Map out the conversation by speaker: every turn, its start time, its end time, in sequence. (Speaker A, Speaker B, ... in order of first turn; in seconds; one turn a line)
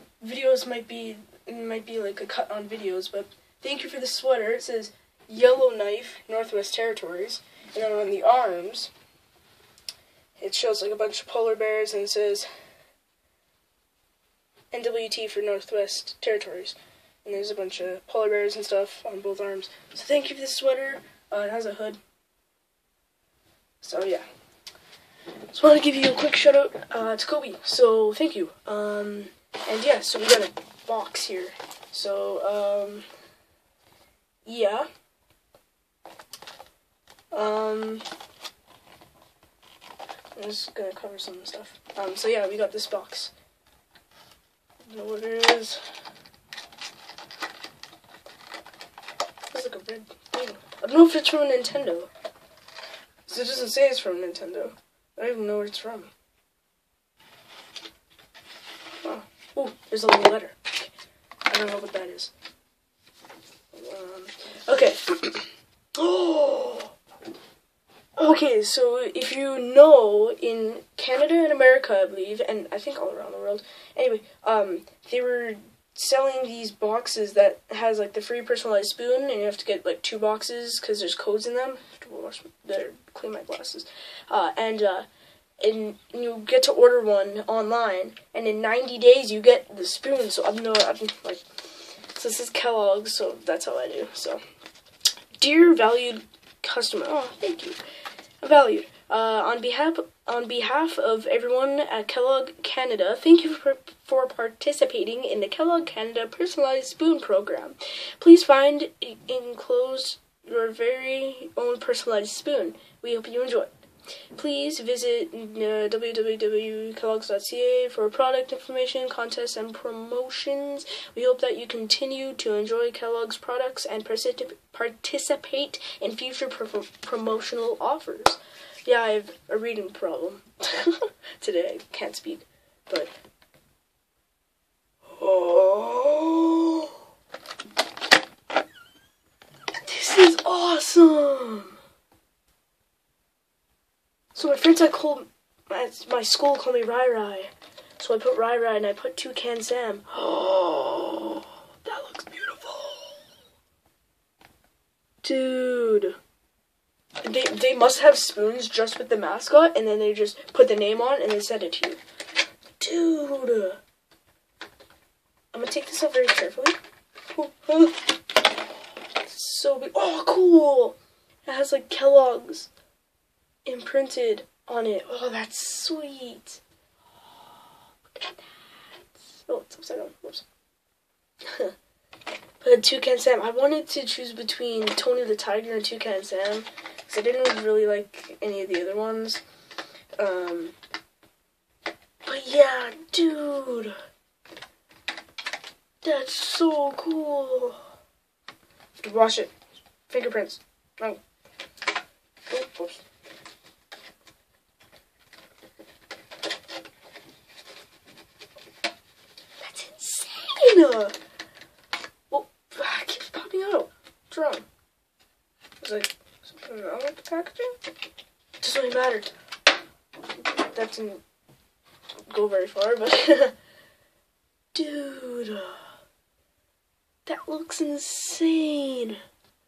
Speaker A: 0.2-8.9
Speaker A: 10.4-12.5
Speaker A: 14.7-22.0
Speaker A: 23.8-24.2
Speaker A: 25.5-33.0
Speaker A: 34.4-34.9
Speaker A: 37.3-38.0
Speaker A: 40.3-43.3
Speaker A: 44.9-45.8
Speaker A: 49.5-52.1
Speaker A: 53.3-56.1
Speaker A: 59.0-60.9
Speaker A: 61.5-62.3
Speaker A: 63.7-66.9
Speaker A: 68.2-85.1
Speaker A: 85.6-94.4
Speaker A: 95.3-97.8
Speaker A: 98.4-113.7
Speaker A: 114.3-133.1
Speaker A: 135.1-136.9
Speaker A: 139.8-141.8
Speaker A: 144.3-153.2
Speaker A: 155.2-156.2
Speaker A: 157.2-162.0
Speaker A: 162.8-163.8
Speaker A: 165.5-166.8
Speaker A: 167.3-168.2
Speaker A: 169.2-172.7
Speaker A: 173.6-176.6
Speaker A: 178.1-178.4
Speaker A: 179.3-180.4
Speaker A: 181.5-181.7
Speaker A: 182.6-189.4
Speaker A: 190.2-190.8
Speaker A: 192.2-193.9
Speaker A: 196.0-197.8
Speaker A: 199.0-199.5
Speaker A: 200.1-201.2
Speaker A: 202.5-203.0
Speaker A: 209.6-211.2
Speaker A: 212.3-214.7
Speaker A: 215.8-217.8
Speaker A: 218.6-219.3
Speaker A: 220.6-221.2
Speaker A: 222.3-223.5
Speaker A: 224.7-225.8
Speaker A: 227.2-229.2